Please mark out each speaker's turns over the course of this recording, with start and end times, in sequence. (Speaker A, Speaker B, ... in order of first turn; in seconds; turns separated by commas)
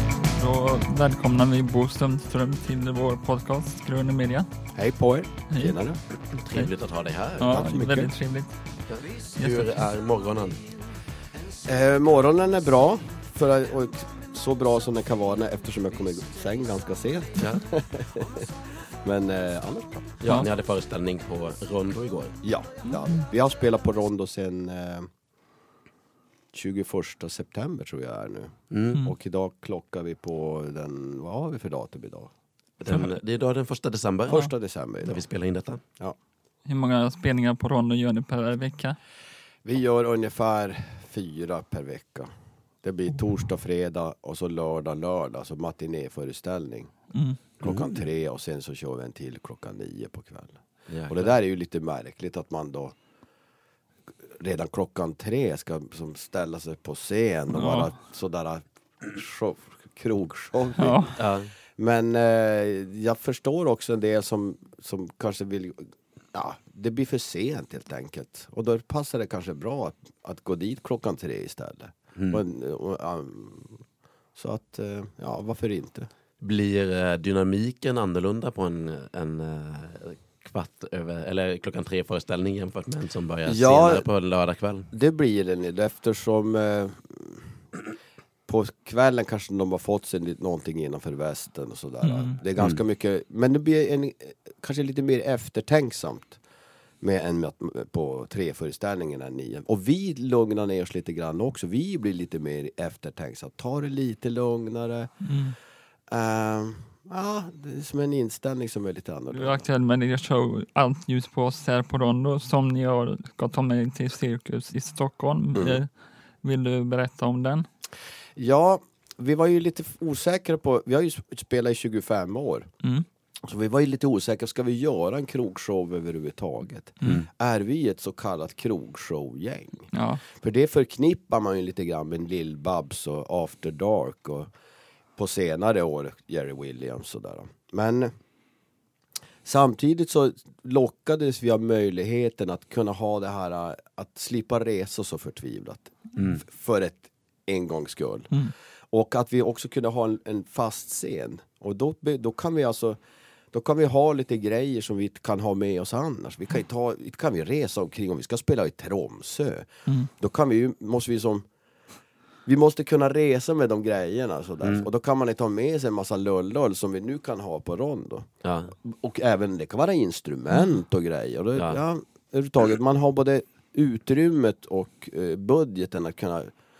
Speaker A: 0.3-4.5, Speaker B: 4.8-6.0, Speaker A: 5.5-5.8, Speaker C: 6.3-7.7, Speaker A: 7.4-8.5, Speaker B: 7.4-8.1, Speaker C: 8.9-10.6, Speaker A: 9.4-9.8, Speaker B: 11.6-18.4, Speaker C: 17.4-17.6, Speaker B: 19.0-20.3, Speaker C: 20.2-22.4, Speaker B: 22.4-25.1, Speaker B: 26.5-32.3, Speaker C: 28.7-29.1, Speaker C: 32.8-34.5, Speaker B: 34.3-35.2, Speaker C: 35.0-35.8, Speaker A: 36.6-39.0, Speaker B: 39.6-42.3, Speaker B: 42.8-46.9, Speaker A: 47.1-47.4, Speaker B: 47.5-52.9, Speaker C: 47.6-48.0, Speaker C: 50.9-51.3, Speaker B: 54.4-61.2, Speaker A: 57.5-57.9, Speaker A: 60.8-61.2, Speaker C: 61.2-61.5, Speaker B: 61.8-73.8, Speaker C: 72.1-72.4, Speaker B: 74.3-76.1, Speaker C: 76.4-84.9, Speaker B: 83.5-84.0, Speaker B: 84.9-87.5, Speaker B: 88.5-96.4, Speaker A: 92.0-92.3, Speaker B: 97.0-105.1, Speaker A: 105.2-105.5, Speaker B: 106.1-109.7, Speaker A: 109.3-117.7, Speaker B: 115.5-115.8, Speaker B: 118.4-122.7, Speaker B: 123.4-134.5, Speaker A: 129.9-130.2, Speaker B: 135.2-138.1, Speaker B: 139.4-148.4, Speaker C: 146.2-146.4, Speaker B: 148.9-153.0, Speaker B: 153.5-161.4, Speaker B: 162.4-176.5, Speaker C: 168.4-168.7